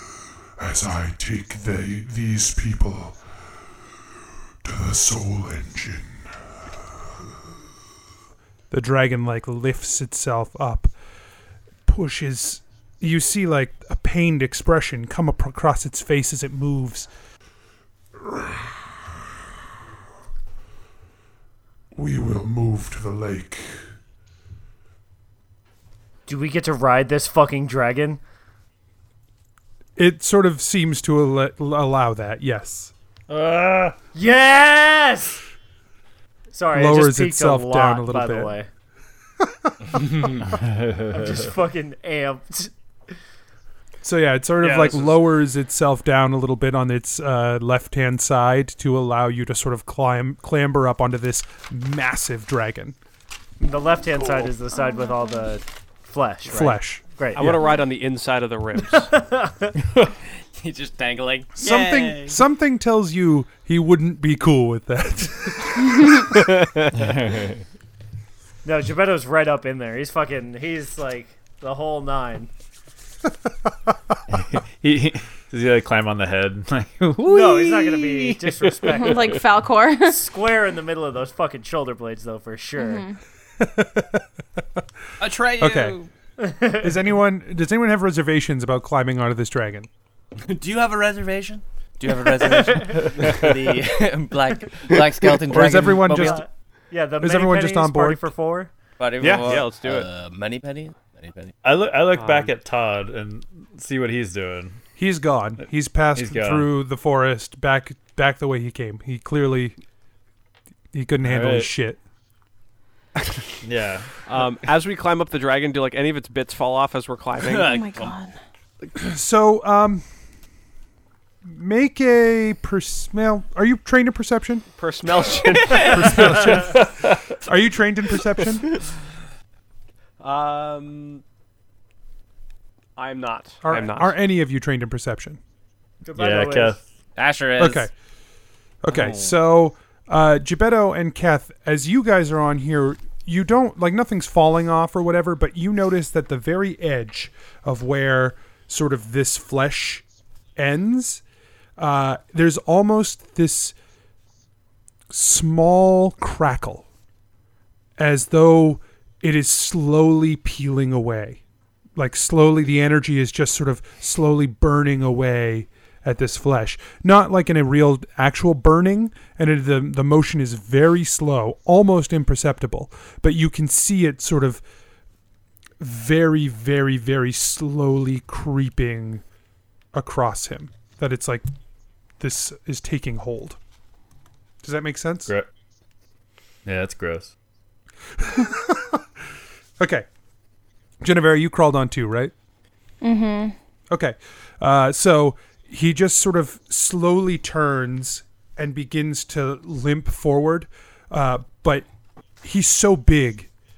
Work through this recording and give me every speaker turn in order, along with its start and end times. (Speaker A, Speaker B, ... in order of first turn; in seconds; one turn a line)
Speaker A: 0.6-3.2
Speaker A: 4.6-6.2
Speaker B: 8.7-10.9
Speaker B: 11.9-17.1
Speaker A: 21.9-23.6
Speaker C: 26.3-28.2
Speaker B: 30.0-32.9
Speaker D: 33.3-34.0
Speaker C: 34.1-35.4
Speaker C: 36.5-38.7
Speaker B: 36.7-38.5
Speaker D: 40.5-41.1
Speaker C: 41.0-42.7
Speaker B: 44.0-53.0
Speaker C: 53.6-57.6
Speaker E: 54.7-55.5
Speaker B: 56.5-57.6
Speaker F: 57.3-59.1
Speaker C: 58.8-59.7
Speaker G: 60.5-62.4
Speaker B: 61.5-66.1
Speaker D: 66.9-67.6
Speaker C: 68.6-72.5
Speaker D: 74.3-79.3
Speaker C: 77.2-79.3
Speaker E: 78.9-80.2
Speaker C: 80.0-83.0
Speaker E: 82.8-83.2
Speaker B: 83.6-84.2
Speaker G: 85.2-86.1
Speaker B: 85.5-86.0
Speaker C: 86.4-86.8
Speaker B: 86.7-89.9
Speaker G: 90.4-96.4
Speaker B: 95.5-96.4
Speaker C: 96.1-98.7
Speaker B: 97.2-98.3
Speaker G: 99.0-101.5
Speaker F: 99.2-100.1
Speaker D: 101.6-104.8
Speaker F: 102.1-102.5
Speaker B: 105.0-109.8
Speaker D: 106.2-106.7
Speaker B: 110.9-112.0
Speaker D: 111.2-111.7
Speaker D: 113.6-114.1
Speaker F: 114.2-117.8
Speaker E: 117.5-118.3
Speaker G: 117.7-118.1
Speaker B: 119.0-120.0
Speaker B: 121.5-124.7
Speaker F: 124.8-126.4
Speaker B: 125.7-128.7
Speaker D: 126.5-127.3
Speaker F: 130.2-131.2
Speaker F: 132.9-134.2
Speaker B: 133.6-135.4
Speaker C: 136.1-136.8
Speaker D: 136.1-136.8
Speaker G: 137.2-137.9
Speaker B: 137.6-137.9
Speaker B: 138.8-150.0
Speaker G: 138.9-139.3
Speaker B: 150.6-151.2
Speaker B: 151.8-153.7
Speaker B: 155.1-156.8
Speaker B: 158.0-161.4
Speaker B: 161.9-174.6
Speaker B: 175.8-179.2
Speaker B: 179.9-181.4
Speaker B: 182.2-183.6
Speaker B: 184.6-185.3
Speaker D: 186.6-187.3
Speaker B: 188.2-189.0
Speaker B: 189.8-190.1
Speaker B: 191.0-192.3
Speaker E: 193.0-193.5
Speaker B: 193.9-201.8
Speaker B: 202.4-203.5